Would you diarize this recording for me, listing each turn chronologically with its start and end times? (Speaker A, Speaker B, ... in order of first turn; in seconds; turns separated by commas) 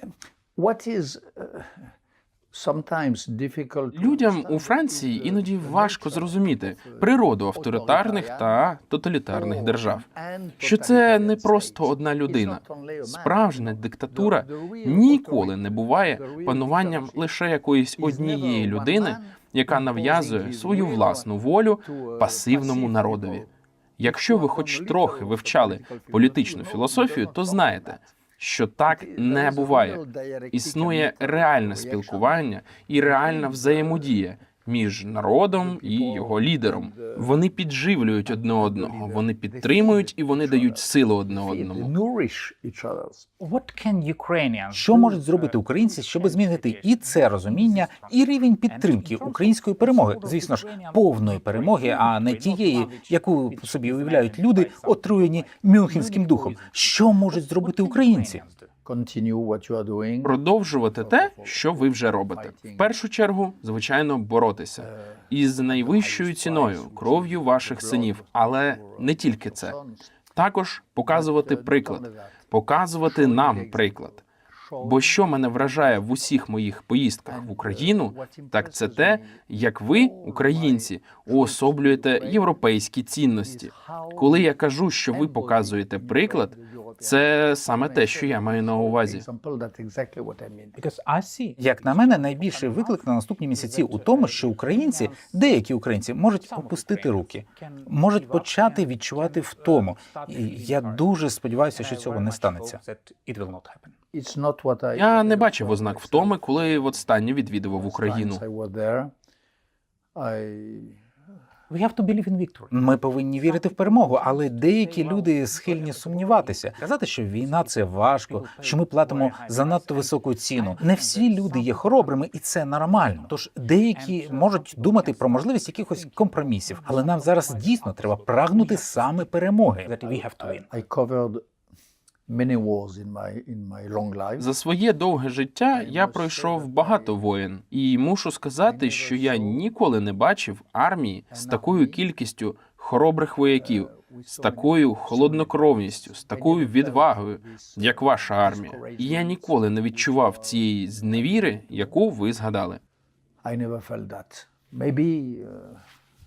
Speaker A: 0.6-1.9, Speaker A: 2.5-8.6, Speaker B: 3.9-10.0, Speaker A: 9.3-17.3, Speaker B: 10.6-23.4, Speaker A: 18.0-21.3, Speaker A: 21.8-23.5, Speaker B: 24.0-30.0, Speaker A: 24.0-28.0, Speaker A: 28.9-32.4, Speaker B: 30.5-41.9, Speaker A: 32.9-34.2, Speaker A: 35.5-37.3, Speaker A: 38.3-43.3, Speaker C: 43.4-58.7, Speaker D: 44.7-58.4, Speaker A: 58.8-60.4, Speaker B: 60.2-69.7, Speaker A: 61.0-62.9, Speaker A: 64.8-70.1, Speaker B: 70.3-74.2, Speaker A: 71.1-72.4, Speaker A: 73.0-76.4, Speaker B: 74.8-89.2, Speaker A: 77.3-79.4, Speaker A: 79.9-82.6, Speaker A: 83.4-84.5, Speaker A: 85.1-90.8, Speaker C: 90.8-92.8, Speaker D: 91.5-102.8, Speaker A: 91.8-93.0, Speaker A: 93.5-94.3, Speaker C: 93.6-95.7, Speaker C: 96.4-103.9, Speaker A: 104.1-107.0, Speaker B: 105.0-108.4, Speaker A: 107.7-109.1, Speaker A: 110.2-111.0, Speaker C: 111.7-130.7, Speaker D: 112.7-130.2, Speaker A: 130.2-131.4, Speaker A: 132.3-134.5, Speaker B: 134.4-152.8, Speaker A: 135.7-137.2, Speaker A: 138.6-139.6, Speaker A: 141.3-142.0, Speaker A: 143.6-152.0, Speaker A: 153.4-155.8